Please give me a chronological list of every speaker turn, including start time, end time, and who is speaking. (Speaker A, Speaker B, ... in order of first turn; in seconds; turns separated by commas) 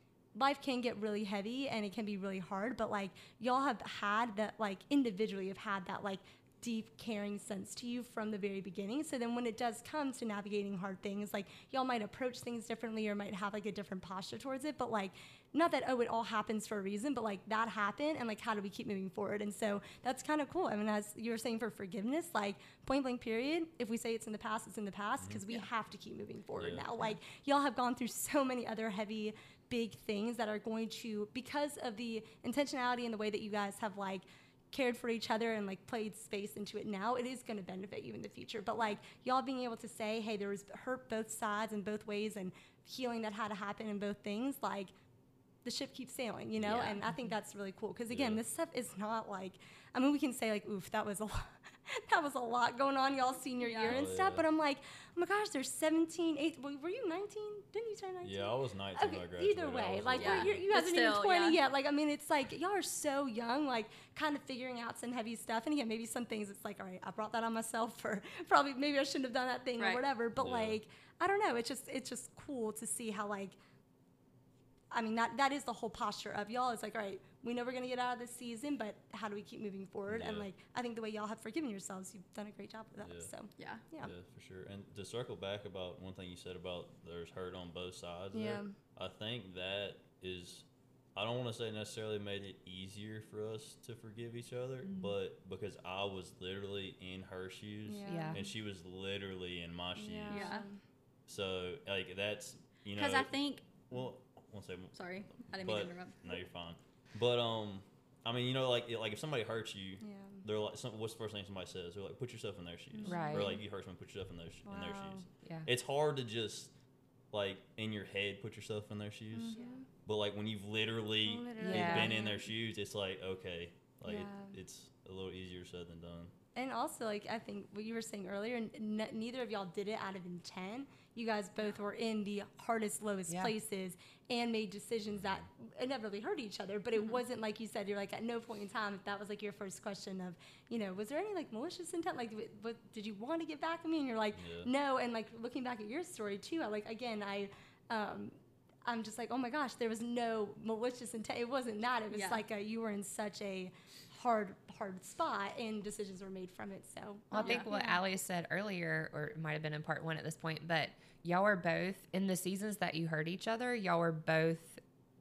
Speaker A: 0.3-44.9, Speaker B: 25.2-25.4, Speaker B: 26.5-26.9, Speaker A: 45.6-73.6, Speaker C: 46.6-47.0, Speaker D: 46.7-47.0, Speaker B: 48.1-48.4, Speaker D: 53.6-54.0, Speaker B: 53.9-54.5, Speaker B: 58.2-60.6, Speaker D: 60.1-61.6, Speaker D: 69.8-70.0, Speaker B: 70.3-70.8, Speaker A: 74.9-84.1, Speaker B: 80.1-80.5, Speaker B: 83.0-83.3, Speaker D: 83.6-83.8, Speaker B: 84.0-100.5, Speaker A: 88.3-88.7, Speaker C: 94.8-95.1, Speaker A: 97.8-98.5, Speaker C: 98.1-98.4, Speaker A: 99.9-100.8, Speaker D: 100.3-100.6, Speaker B: 101.3-103.3, Speaker D: 102.9-103.6, Speaker B: 103.9-116.7, Speaker D: 104.9-106.3, Speaker A: 110.0-110.4, Speaker C: 113.0-113.5, Speaker A: 113.1-113.5, Speaker A: 114.6-115.2, Speaker B: 117.3-126.3, Speaker A: 119.3-119.8, Speaker A: 121.2-122.5, Speaker C: 121.6-122.1, Speaker A: 124.0-124.6, Speaker A: 126.5-157.9, Speaker C: 133.3-133.5, Speaker B: 135.1-135.5, Speaker B: 144.3-144.7, Speaker D: 152.1-152.4, Speaker C: 157.3-164.8, Speaker D: 157.3-157.6